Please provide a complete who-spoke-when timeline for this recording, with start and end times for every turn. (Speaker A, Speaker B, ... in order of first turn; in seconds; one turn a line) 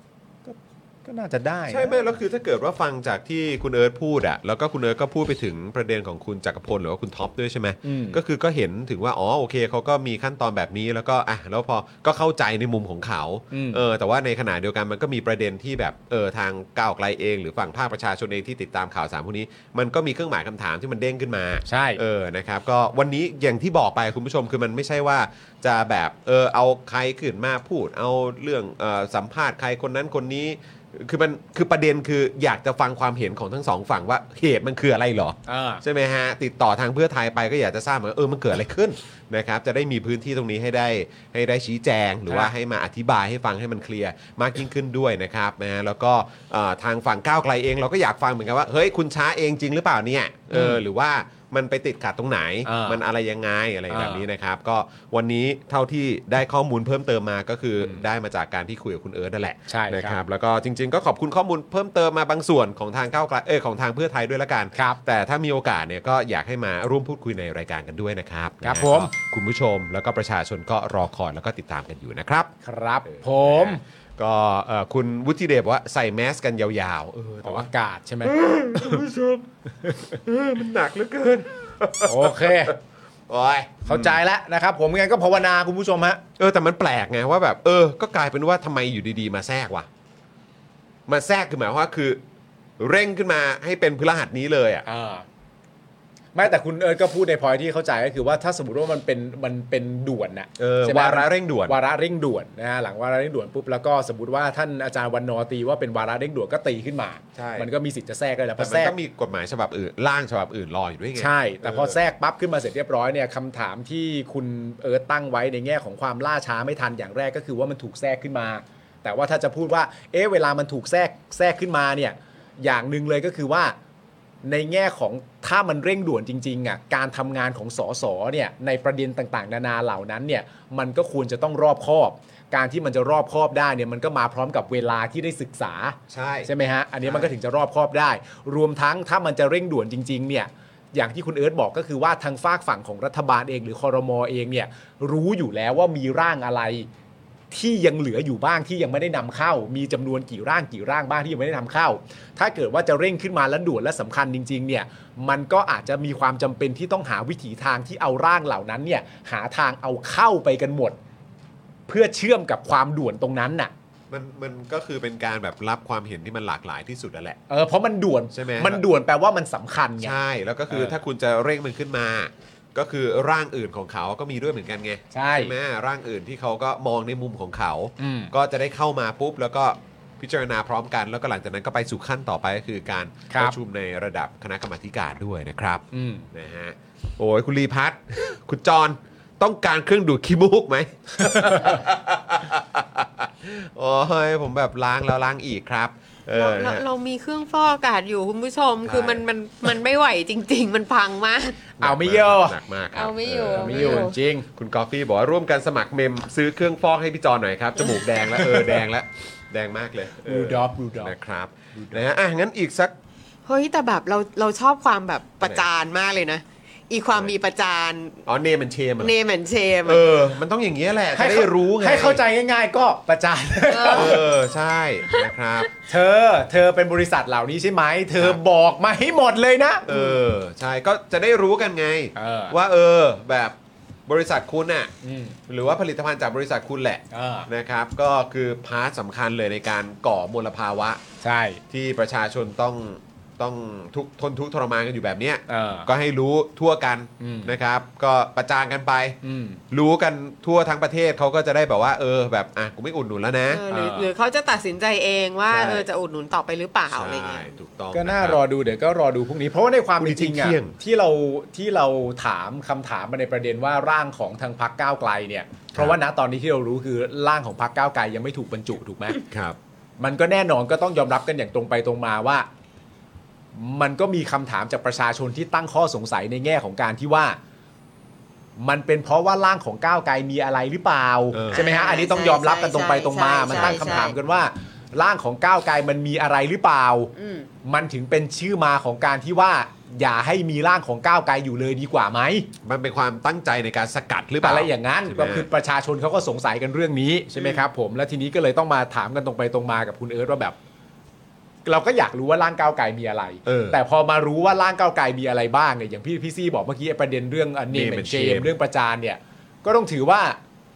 Speaker A: 0.4-2.0
Speaker B: 1.7-72.5
Speaker A: 7.8-8.2
Speaker A: 13.5-13.8
Speaker A: 21.6-22.0
Speaker A: 35.5-35.8
Speaker A: 42.3-42.5
Speaker A: 50.5-50.8
Speaker A: 52.6-53.0
Speaker A: 53.9-54.2
Speaker A: 59.7-60.2
Speaker A: 68.6-69.1
Speaker A: 72.6-73.8
Speaker B: 73.1-77.7
Speaker A: 77.4-79.0
Speaker B: 78.2-79.5
Speaker B: 80.1-82.8
Speaker A: 82.0-82.8
Speaker B: 83.3-84.2
Speaker A: 83.8-86.2
Speaker B: 86.4-89.9
Speaker B: 91.1-92.2
Speaker B: 92.8-94.8
Speaker A: 94.8-95.2
Speaker A: 96.3-108.9
Speaker B: 100.6-101.8
Speaker B: 107.3-107.7
Speaker B: 108.6-112.0
Speaker A: 111.2-123.8
Speaker A: 124.4-146.9
Speaker B: 136.1-136.5
Speaker B: 137.0-137.3
Speaker A: 147.5-161.0
Speaker A: 161.9-163.7
Speaker B: 164.1-167.4
Speaker A: 167.5-170.2
Speaker B: 168.3-168.8
Speaker B: 170.0-196.8
Speaker A: 170.7-171.0
Speaker A: 175.1-175.5
Speaker A: 178.0-178.3
Speaker A: 183.3-183.6
Speaker A: 185.9-186.3
Speaker A: 191.2-191.8
Speaker C: 196.4-201.6
Speaker B: 198.8-199.2
Speaker A: 201.8-202.6
Speaker B: 201.8-212.9
Speaker C: 202.9-204.2
Speaker A: 203.5-204.5
Speaker A: 208.4-208.8
Speaker A: 210.2-211.1
Speaker A: 211.7-212.0
Speaker C: 213.4-218.2
Speaker B: 215.4-215.7
Speaker B: 218.2-219.1
Speaker C: 219.0-220.0
Speaker B: 219.8-222.2
Speaker A: 221.1-224.2
Speaker C: 223.7-224.3
Speaker B: 223.9-225.7
Speaker A: 225.9-229.8
Speaker B: 229.8-233.5
Speaker C: 229.9-230.2
Speaker A: 232.2-232.6
Speaker B: 234.1-234.9
Speaker A: 235.0-235.4
Speaker B: 235.5-241.0
Speaker A: 237.1-237.5
Speaker A: 241.2-241.6
Speaker B: 241.7-249.2
Speaker A: 245.5-245.9
Speaker A: 247.2-247.6
Speaker A: 249.2-249.6
Speaker B: 249.7-253.7
Speaker C: 253.5-257.5
Speaker A: 253.7-254.1
Speaker B: 255.5-255.8
Speaker B: 256.9-258.4
Speaker A: 257.9-269.2
Speaker B: 260.0-260.8
Speaker B: 269.3-269.6
Speaker A: 270.0-272.5
Speaker A: 273.5-277.4
Speaker A: 278.6-287.1
Speaker B: 281.3-281.6
Speaker C: 281.5-284.1
Speaker C: 287.1-287.5
Speaker A: 287.6-292.5
Speaker B: 292.6-295.4
Speaker A: 294.4-300.6
Speaker A: 301.6-310.4
Speaker B: 303.4-303.8
Speaker B: 307.7-308.5